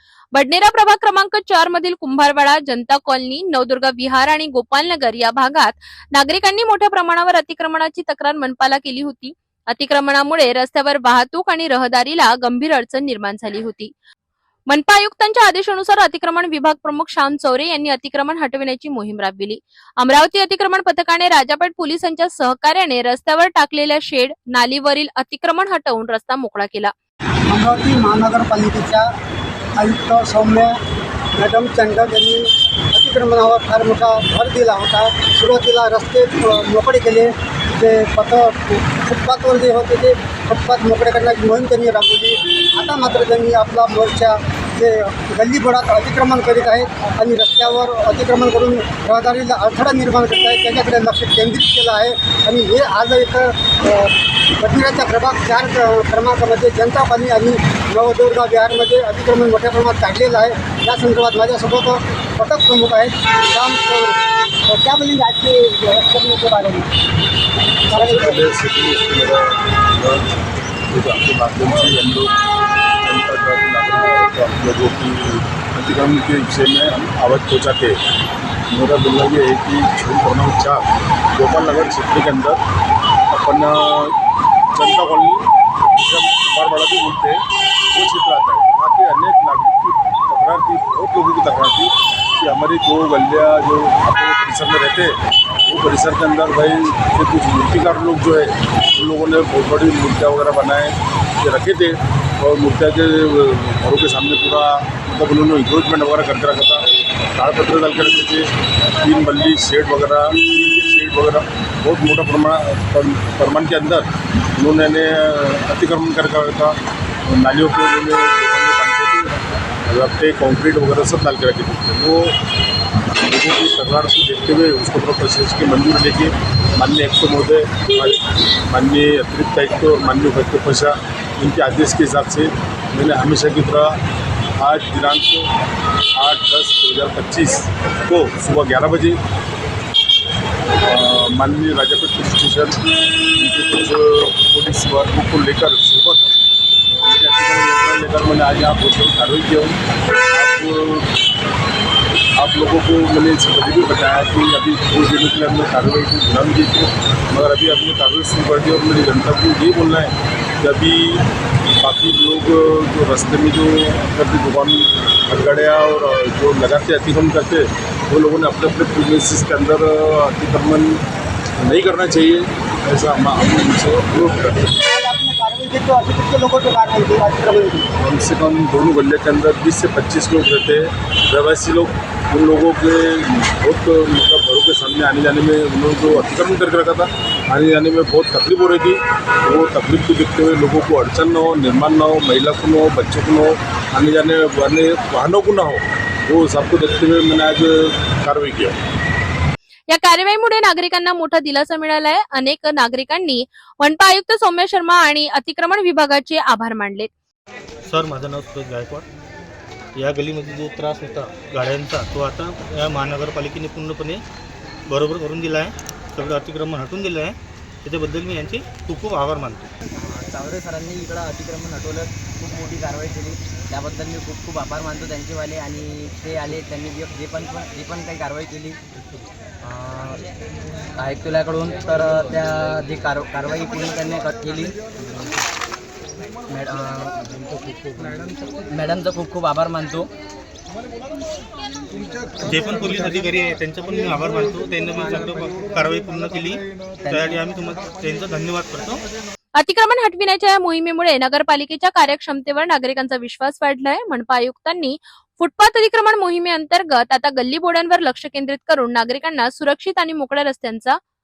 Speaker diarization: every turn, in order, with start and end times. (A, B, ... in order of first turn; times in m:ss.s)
0:00.3-0:13.9 A
0:14.7-0:26.9 A
0:27.5-0:29.1 B
0:29.8-0:30.8 B
0:31.4-1:06.9 B
1:07.9-1:10.4 C
1:07.9-1:08.4 B
1:10.9-1:12.3 C
1:13.0-1:18.0 C
1:18.7-1:22.6 C
1:23.3-1:24.2 C
1:24.7-1:27.4 C
1:27.9-1:48.5 C
1:49.0-2:02.3 C
2:03.3-2:14.0 C
2:14.6-2:15.5 C
2:16.2-2:19.2 C
2:20.8-2:26.3 C
2:26.9-2:31.2 C
2:32.4-2:41.2 C
2:41.8-2:51.0 C
2:51.6-2:54.7 C
2:54.8-2:57.9 B
2:58.0-3:18.8 C
3:19.9-3:27.1 A
3:27.9-3:29.1 D
3:30.0-3:34.2 D
3:34.9-3:39.7 D
3:40.0-3:48.8 E
3:49.6-3:50.2 E
3:51.0-3:54.8 E
3:56.5-3:57.3 E
3:58.0-4:00.1 E
4:02.4-4:09.0 D
4:07.0-4:07.4 E
4:09.6-4:21.0 A